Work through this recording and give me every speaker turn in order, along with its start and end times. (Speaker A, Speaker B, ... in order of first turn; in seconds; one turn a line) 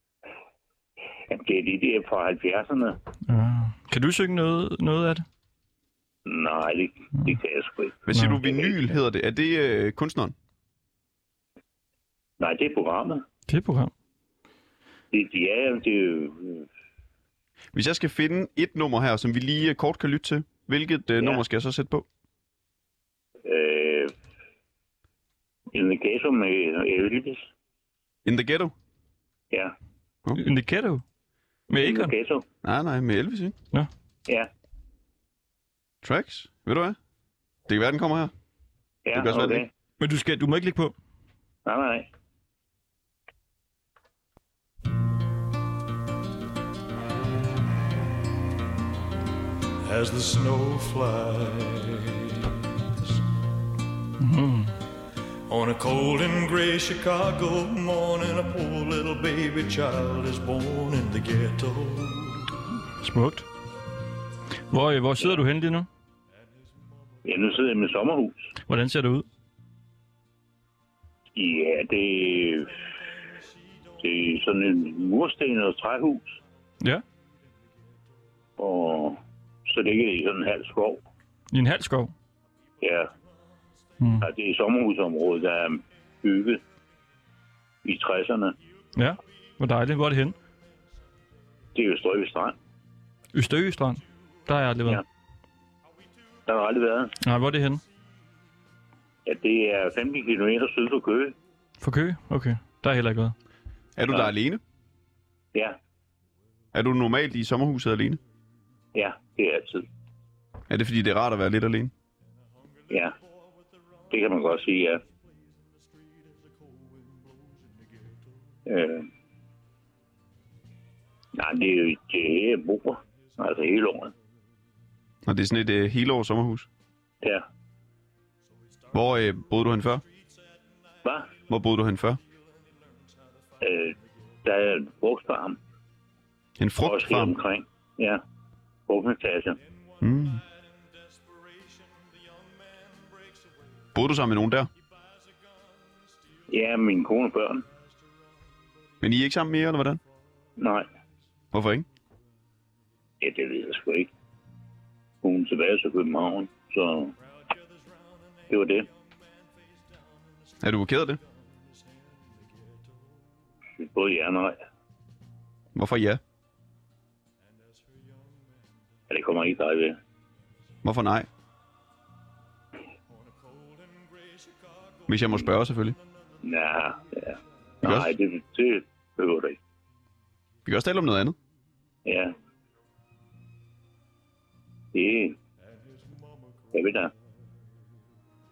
Speaker A: 1.3-3.0
Speaker B: 3.3-5.2
Speaker A: 6.2-8.8
Speaker C: 8.1-10.3
Speaker A: 12.4-13.2
Speaker B: 13.5-13.9
Speaker A: 15.1-16.7
Speaker C: 17.7-22.1
Speaker A: 23.4-24.1
Speaker A: 25.7-27.5
Speaker C: 28.2-28.7
Speaker B: 30.4-31.0
Speaker B: 31.7-32.1
Speaker A: 31.8-32.4
Speaker C: 32.6-33.6
Speaker C: 36.0-37.0
Speaker C: 37.7-38.3
Speaker A: 39.1-39.7
Speaker C: 39.1-39.7
Speaker B: 40.0-40.9
Speaker A: 41.7-42.1
Speaker D: 49.8-53.2
Speaker B: 54.2-54.8
Speaker D: 55.5-62.5
Speaker B: 63.0-63.5
Speaker B: 64.7-65.9
Speaker A: 67.2-68.5
Speaker B: 68.7-69.3
Speaker A: 71.4-72.7
Speaker A: 74.0-76.4
Speaker A: 78.6-81.0
Speaker B: 81.5-82.1
Speaker A: 82.8-83.1
Speaker B: 84.0-84.3
Speaker A: 84.2-86.6
Speaker A: 87.8-88.5
Speaker B: 89.0-90.4
Speaker A: 91.8-92.5
Speaker B: 93.3-95.0
Speaker A: 96.5-97.2
Speaker B: 97.2-97.8
Speaker A: 99.3-101.3
Speaker B: 101.8-103.3
Speaker C: 104.0-104.6
Speaker C: 106.7-108.2
Speaker A: 108.9-109.8
Speaker C: 110.7-111.9
Speaker A: 112.9-113.1
Speaker A: 114.1-115.0
Speaker A: 118.7-119.1
Speaker A: 121.3-124.1
Speaker C: 125.2-126.7
Speaker C: 128.9-130.0
Speaker A: 131.0-131.3
Speaker C: 131.5-132.2
Speaker A: 133.6-135.6
Speaker C: 136.6-137.4
Speaker A: 136.8-138.2
Speaker A: 138.9-139.6
Speaker C: 140.0-140.4
Speaker C: 143.9-144.7
Speaker A: 146.5-147.6
Speaker C: 149.0-150.0
Speaker A: 150.6-150.9
Speaker C: 151.5-151.9
Speaker A: 153.2-154.1
Speaker A: 155.2-157.1
Speaker A: 158.5-158.9
Speaker C: 160.6-161.2
Speaker A: 163.8-164.6
Speaker C: 165.7-166.2
Speaker A: 169.1-170.0
Speaker C: 170.8-171.3
Speaker D: 173.5-174.3
Speaker C: 175.1-176.0
Speaker A: 176.4-179.6
Speaker C: 177.8-178.1
Speaker C: 180.6-181.4
Speaker A: 182.1-182.3
Speaker A: 184.9-185.4
Speaker A: 186.7-187.1